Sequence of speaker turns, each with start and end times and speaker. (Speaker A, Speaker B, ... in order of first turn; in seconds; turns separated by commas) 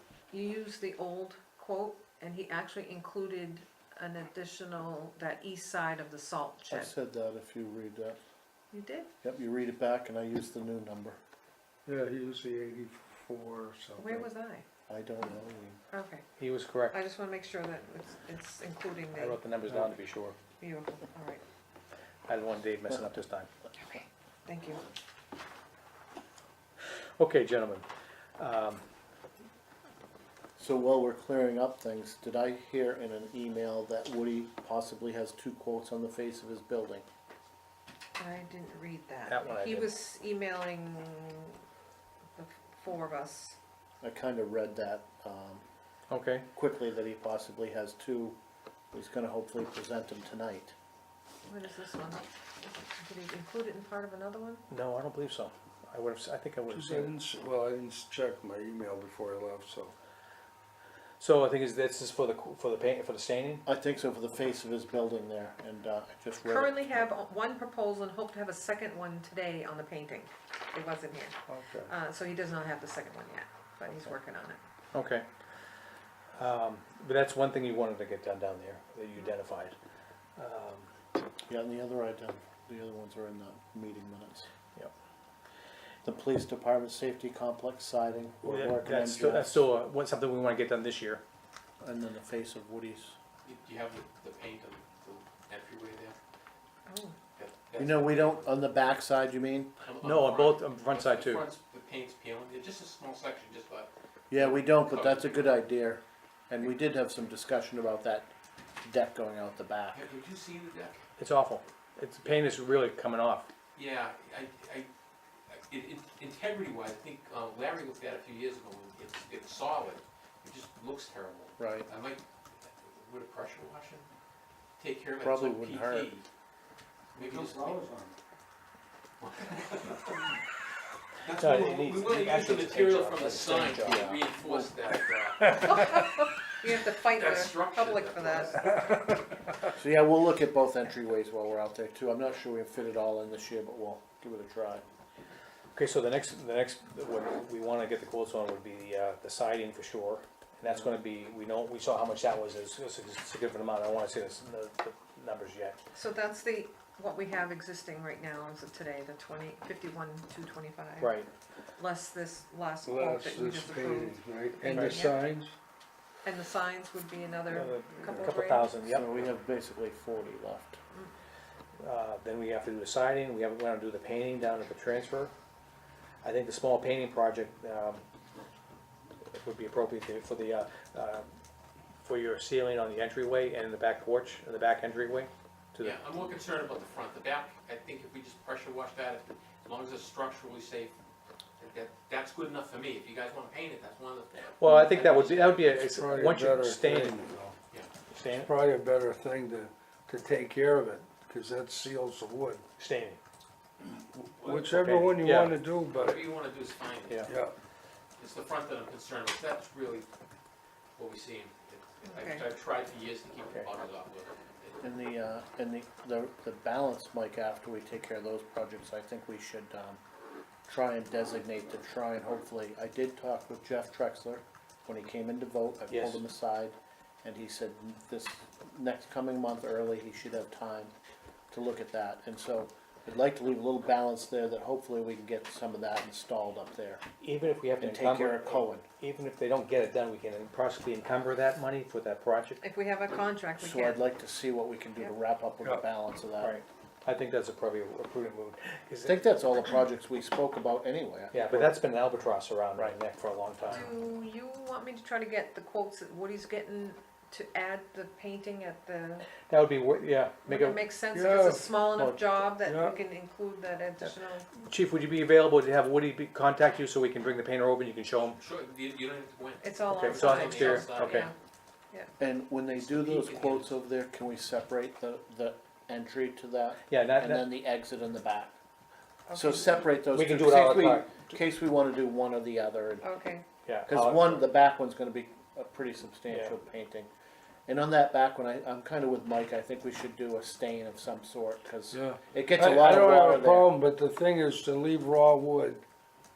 Speaker A: 0.3-6.9, Speaker B: 6.7-8.2, Speaker A: 8.7-9.1, Speaker B: 9.2-11.2, Speaker C: 11.9-14.3, Speaker A: 14.0-14.7, Speaker B: 14.9-15.8, Speaker A: 15.9-16.3, Speaker D: 16.4-17.0, Speaker A: 16.9-19.4, Speaker D: 19.1-20.4, Speaker C: 19.7-19.9, Speaker A: 20.6-21.4, Speaker D: 22.3-23.5, Speaker A: 23.8-24.8, Speaker D: 27.2-27.9, Speaker D: 28.4-28.8, Speaker B: 30.6-37.1, Speaker A: 38.2-41.6, Speaker D: 39.3-39.9, Speaker A: 42.4-43.6, Speaker B: 44.0-45.6, Speaker D: 46.1-46.5, Speaker B: 46.5-48.4, Speaker B: 48.9-50.7, Speaker A: 51.5-54.6, Speaker D: 54.7-57.1, Speaker C: 56.7-59.9, Speaker D: 61.2-63.6, Speaker B: 63.7-67.1, Speaker A: 66.5-74.6, Speaker C: 71.5-71.9, Speaker D: 74.9-75.3, Speaker D: 76.4-79.8, Speaker D: 80.4-80.9, Speaker B: 81.5-84.5, Speaker B: 86.0-89.7, Speaker D: 88.4-91.2, Speaker B: 91.8-93.2, Speaker E: 93.4-96.2, Speaker A: 96.9-97.2, Speaker E: 97.4-98.5, Speaker B: 97.8-99.7, Speaker E: 99.8-105.6, Speaker D: 100.0-101.4, Speaker B: 104.3-108.3, Speaker B: 108.8-110.0, Speaker E: 109.9-111.0, Speaker D: 111.2-113.5, Speaker E: 113.8-114.9, Speaker E: 115.5-124.1, Speaker B: 121.6-121.9, Speaker E: 124.8-126.3, Speaker B: 125.2-126.1, Speaker E: 127.1-127.8, Speaker C: 127.2-128.1, Speaker E: 129.2-130.3, Speaker E: 131.2-136.1, Speaker D: 131.3-134.2, Speaker B: 133.8-134.2, Speaker A: 135.5-138.9, Speaker E: 137.1-138.9, Speaker B: 139.7-144.8, Speaker D: 145.8-155.8, Speaker A: 155.9-161.2, Speaker D: 161.0-161.3, Speaker A: 161.8-165.2, Speaker C: 162.8-165.5, Speaker A: 166.2-168.7, Speaker D: 167.5-169.1, Speaker B: 168.8-170.8, Speaker D: 171.8-175.3, Speaker D: 176.2-178.0, Speaker D: 179.3-181.3, Speaker D: 182.0-186.0, Speaker E: 185.8-191.0, Speaker E: 191.6-195.8, Speaker D: 194.6-197.2, Speaker C: 194.7-195.0, Speaker C: 195.8-197.6, Speaker D: 198.1-198.5, Speaker C: 198.4-202.7, Speaker D: 202.8-203.2, Speaker C: 203.8-206.3, Speaker D: 204.4-205.5, Speaker E: 205.9-207.3, Speaker C: 207.3-207.5, Speaker E: 208.2-210.1, Speaker E: 211.0-214.8, Speaker A: 212.1-212.4, Speaker B: 214.8-220.0, Speaker B: 220.7-230.9, Speaker D: 225.9-226.2, Speaker B: 231.5-237.0, Speaker D: 237.2-242.6, Speaker B: 237.8-238.9, Speaker A: 242.6-244.0, Speaker B: 243.6-246.6, Speaker D: 246.4-249.2, Speaker B: 249.0-251.8, Speaker D: 251.3-253.9, Speaker A: 253.7-259.3, Speaker D: 259.5-260.8, Speaker A: 260.5-264.5, Speaker C: 261.1-261.9, Speaker C: 262.6-263.0, Speaker D: 264.0-268.4, Speaker E: 268.4-271.3, Speaker A: 269.6-271.3, Speaker D: 269.9-271.3, Speaker B: 272.2-278.6, Speaker E: 272.8-273.7, Speaker D: 276.9-277.5, Speaker A: 279.3-279.9, Speaker B: 279.3-283.0, Speaker D: 280.1-281.2, Speaker A: 283.0-283.4, Speaker D: 283.7-284.5, Speaker B: 283.9-287.1, Speaker D: 286.3-286.6, Speaker B: 287.7-293.7, Speaker C: 291.9-295.8